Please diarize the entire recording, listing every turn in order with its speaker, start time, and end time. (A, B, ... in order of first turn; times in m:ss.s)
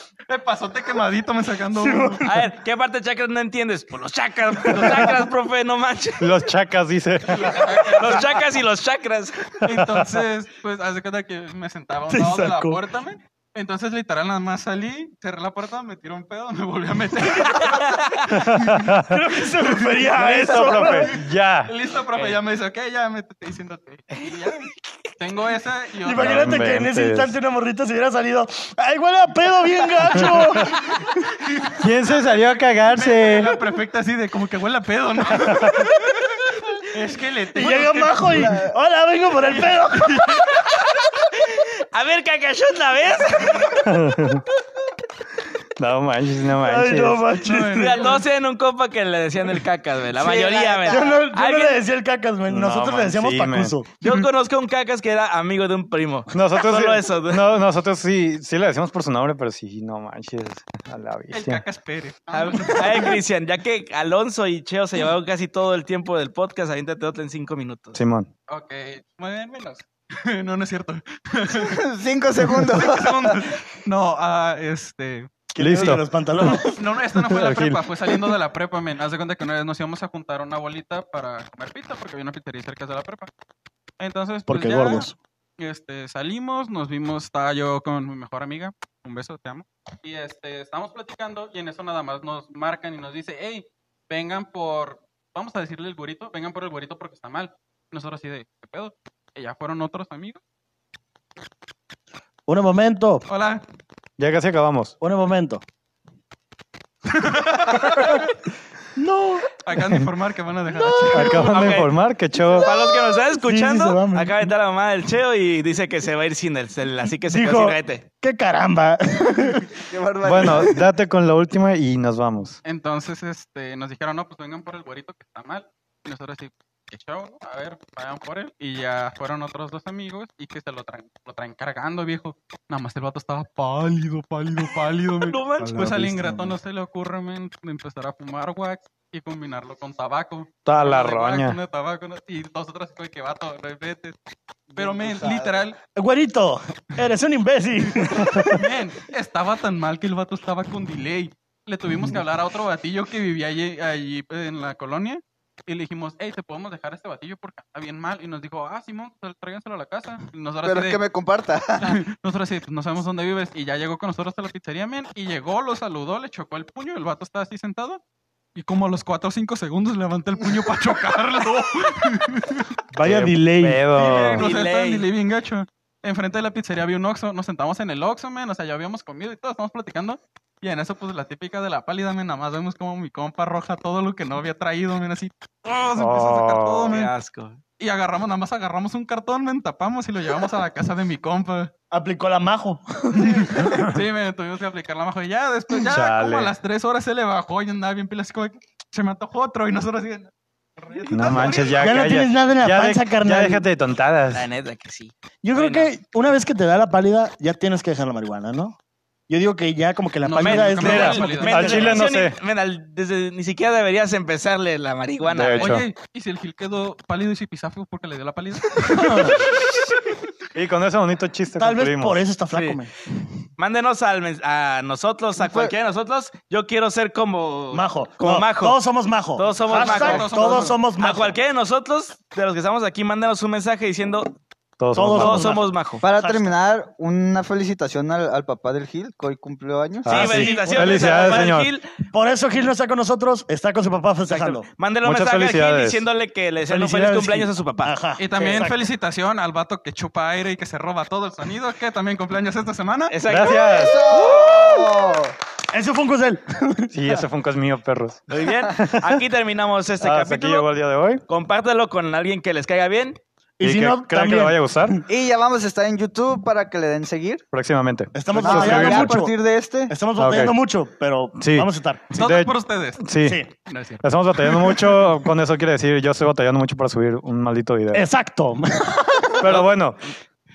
0:00.3-0:02.2 A
0:01.7-0:02.5 B
0:02.2-0:06.3 C
0:06.2-0:07.9 D
0:07.3-0:08.5 A
0:08.0-0:09.5 C
0:09.5-0:26.7 A
0:09.6-0:09.9 D
0:12.1-0:12.8 B
0:17.6-0:18.3 C
0:18.3-0:19.2 D
0:19.0-0:21.2 B
0:20.1-0:21.7 D
0:26.0-0:31.0 B
0:26.2-0:27.3 D
0:30.2-0:30.7 D
0:31.6-0:38.6 A
0:31.7-0:33.6 D
0:35.4-0:35.7 D
0:37.5-0:40.6 B
0:38.4-0:38.7 E
0:39.4-0:40.5 A
0:40.5-0:44.0 C
0:43.7-0:44.4 D
0:45.8-0:47.2 D
0:46.6-0:48.2 B
0:47.4-0:48.2 A
0:47.7-0:51.8 C
0:50.1-0:51.2 E
0:50.8-0:53.9 B
0:52.5-0:54.1 D
0:54.0-0:57.5 C
0:56.3-1:01.6 D
1:01.3-1:03.2 A
1:02.3-1:08.0 C
1:07.9-1:08.3 D
1:08.5-1:11.8 A
1:11.5-1:13.6 E
1:12.5-1:23.3 A
1:15.5-1:16.8 B
1:15.6-1:16.6 D
1:17.1-1:17.8 D
1:24.0-1:40.4 A
1:24.5-1:25.2 B
1:42.5-1:43.2 B
1:43.3-1:43.6 A
1:44.2-1:44.9 D
1:45.0-1:45.6 B
1:47.0-1:48.3 A
1:49.0-1:49.5 B
1:49.6-1:51.8 A
1:50.7-1:51.3 B
1:51.1-1:52.7 D
1:51.3-1:51.9 C
1:52.6-1:58.0 C
1:53.3-1:54.5 B
1:57.3-1:59.7 B
1:59.9-2:00.8 E
2:00.2-2:02.6 D
2:02.6-2:24.2 A
2:15.2-2:15.9 C
2:15.6-2:16.6 B
2:20.6-2:21.6 D
2:24.7-2:25.6 E
2:24.7-2:25.8 A
2:26.0-2:28.7 B
2:28.0-2:41.0 A
2:40.6-2:42.0 E
2:41.8-2:48.0 A
2:48.5-2:52.7 A
2:52.9-2:54.4 D
2:53.0-2:53.8 B
2:53.9-3:07.1 A
2:54.4-2:55.1 C
3:06.0-3:07.0 D
3:06.9-3:07.6 C
3:07.8-3:11.7 A
3:11.9-3:13.7 B
3:13.1-3:22.0 A
3:15.9-3:16.5 D
3:21.1-3:24.5 D
3:21.4-3:23.6 B
3:24.3-3:25.9 C
3:25.4-3:28.8 B
3:29.3-3:32.0 B
3:30.2-3:32.0 A
3:30.4-3:35.8 C
3:30.8-3:32.4 D
3:35.3-3:35.8 D
3:35.6-3:40.0 A
3:38.8-3:39.4 B
3:40.5-3:42.2 D
3:41.6-3:42.9 B
3:42.5-3:42.8 C
3:43.6-3:48.8 C
3:45.4-3:45.7 E
3:47.7-3:51.4 B
3:49.4-3:54.3 C
3:49.7-3:50.7 E
3:49.7-3:50.8 A
3:54.8-3:55.6 D
3:55.0-3:56.5 B
3:55.1-3:56.0 C
3:56.0-4:00.4 E
4:00.0-4:01.7 D
4:00.0-4:01.8 C
4:00.1-4:01.5 B
4:02.1-4:04.7 B
4:04.2-4:08.6 C
4:05.0-4:06.1 D
4:06.6-4:08.9 B
4:08.2-4:13.2 A
4:13.1-4:14.0 C
4:13.2-4:14.0 D
4:13.6-4:15.3 E
4:14.2-4:14.9 B
4:15.7-4:17.2 B
4:16.9-4:19.2 D
4:18.3-4:20.7 C
4:20.0-4:21.2 D
4:21.3-4:23.2 C
4:23.6-4:25.1 B
4:23.6-4:25.0 D
4:25.1-4:27.4 E
4:27.5-4:29.2 D
4:28.1-4:32.1 B
4:28.4-4:30.0 E
4:30.2-4:30.6 D
4:31.4-4:33.4 D
4:32.2-4:33.1 A
4:33.2-4:33.5 B
4:33.7-4:34.9 A
4:34.0-4:38.0 D
4:37.9-4:39.6 B
4:39.4-4:40.0 D